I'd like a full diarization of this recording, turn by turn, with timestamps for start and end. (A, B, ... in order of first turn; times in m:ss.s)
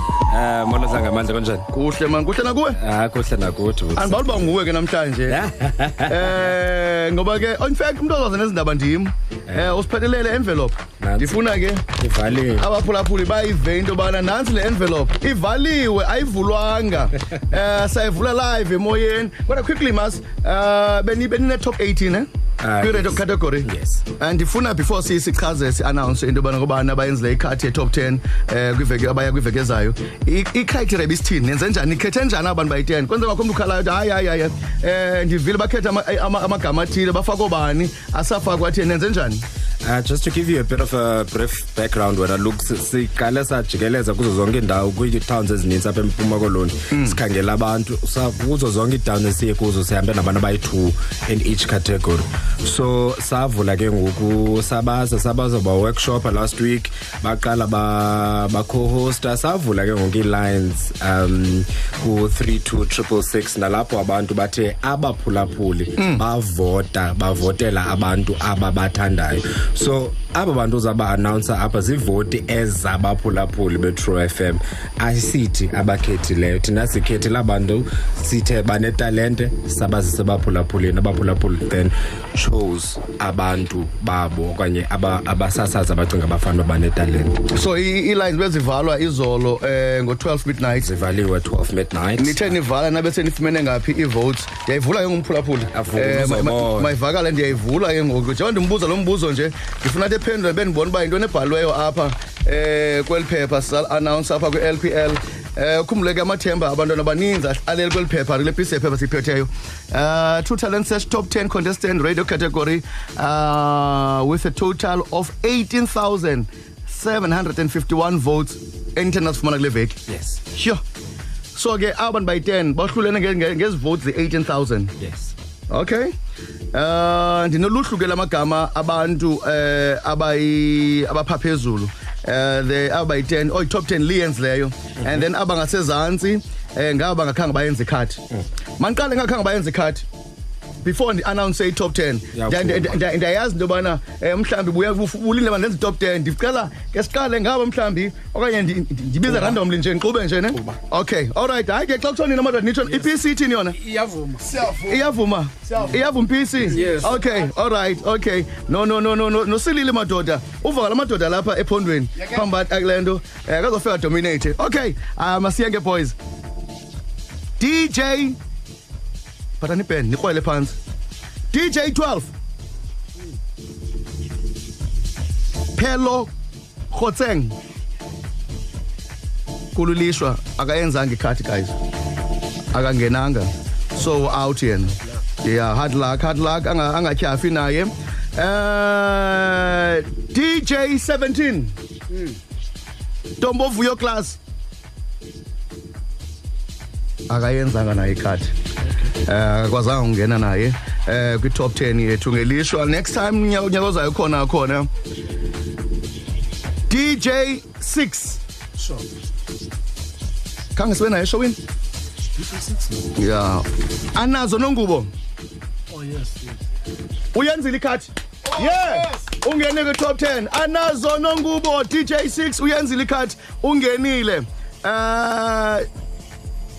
0:00.3-0:01.7 A
0:01.7-0:02.8 B
0:02.7-0:04.5 A
0:04.0-0:05.4 B
0:05.3-0:06.5 A
0:06.1-0:11.9 B
0:09.5-0:09.8 A
0:11.0-0:11.4 A
0:11.9-0:12.7 A
0:12.5-0:22.3 B
0:22.6-0:24.0 A
0:22.8-0:39.4 B
0:39.8-1:27.4 A
0:46.9-0:47.2 B
1:06.0-1:06.2 B
1:27.5-1:30.9 B
1:30.8-1:32.5 A
1:32.2-2:00.0 B
1:35.7-1:36.9 A
2:00.1-2:00.4 A
2:00.5-2:00.8 B
2:01.5-2:04.9 B
2:05.0-2:05.3 A
2:05.7-2:06.1 B
2:06.7-2:18.2 B
2:15.0-2:15.2 A
2:18.8-2:20.0 B
2:20.8-2:33.8 B
2:22.3-2:23.0 A
2:33.7-2:34.7 C
2:34.7-2:46.2 B
2:36.7-2:37.2 C
2:47.6-2:48.4 B
2:49.6-2:50.8 B
2:51.5-2:52.3 B
2:55.7-2:56.3 B
2:56.9-2:57.6 B
2:59.7-3:01.8 B
3:02.7-3:11.7 B
3:12.1-3:12.4 C
3:13.4-3:14.4 B
3:17.3-3:18.5 B
3:19.1-3:24.9 B
3:26.9-3:28.4 B
3:28.8-3:29.0 C
3:30.7-3:31.6 B
3:32.4-3:32.8 C
3:33.1-3:35.1 B
3:35.9-3:36.6 C
3:37.3-3:45.8 B
3:38.6-3:39.2 C